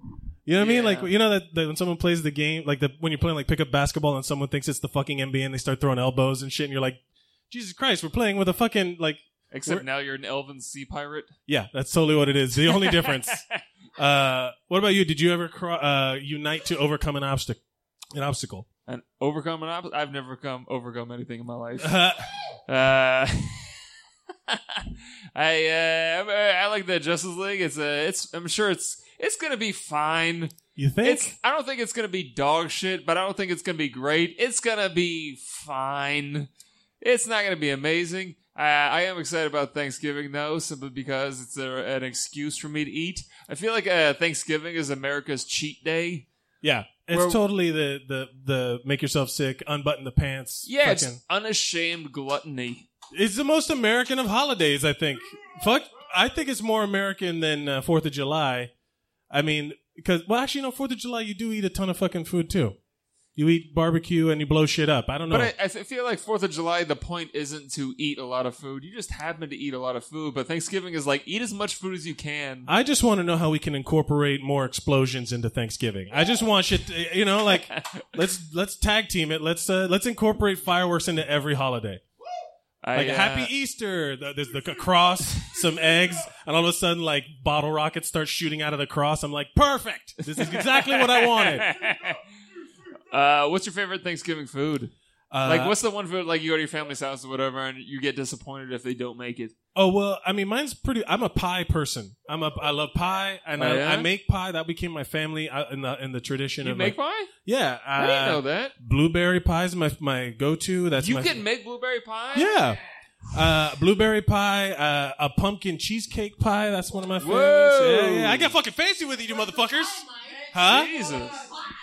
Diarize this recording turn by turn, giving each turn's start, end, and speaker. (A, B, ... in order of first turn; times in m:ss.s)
0:00.4-0:07.0 A
0:00.6-0:01.1 B
0:07.5-0:09.8 A
0:09.5-0:11.3 B
0:11.5-0:13.4 A
0:12.6-0:13.4 B
0:14.0-0:17.6 A
0:18.1-0:18.7 A
0:18.9-0:22.0 B
0:21.8-0:22.3 A
0:22.7-0:23.7 B
0:24.5-0:36.5 B
0:30.8-0:31.3 A
0:37.0-0:46.2 B
0:46.6-0:51.2 A
0:47.1-0:47.4 B
0:50.6-0:52.9 B
0:53.1-0:58.7 A
0:59.3-1:02.8 A
1:03.4-1:05.5 A
1:05.3-1:12.7 B
1:12.7-1:22.0 A
1:17.7-1:18.0 B
1:22.8-1:23.5 B
1:22.9-1:31.7 A
1:30.4-1:32.2 B
1:33.1-1:34.9 B
1:35.3-1:35.7 A
1:35.4-1:39.5 B
1:39.7-1:51.4 A
1:43.6-1:44.1 B
1:46.6-1:47.3 B
1:48.0-1:48.7 B
1:51.0-1:52.6 B
1:52.3-1:52.8 A
1:53.3-2:00.9 A
1:57.2-1:58.5 B
2:00.6-2:01.4 B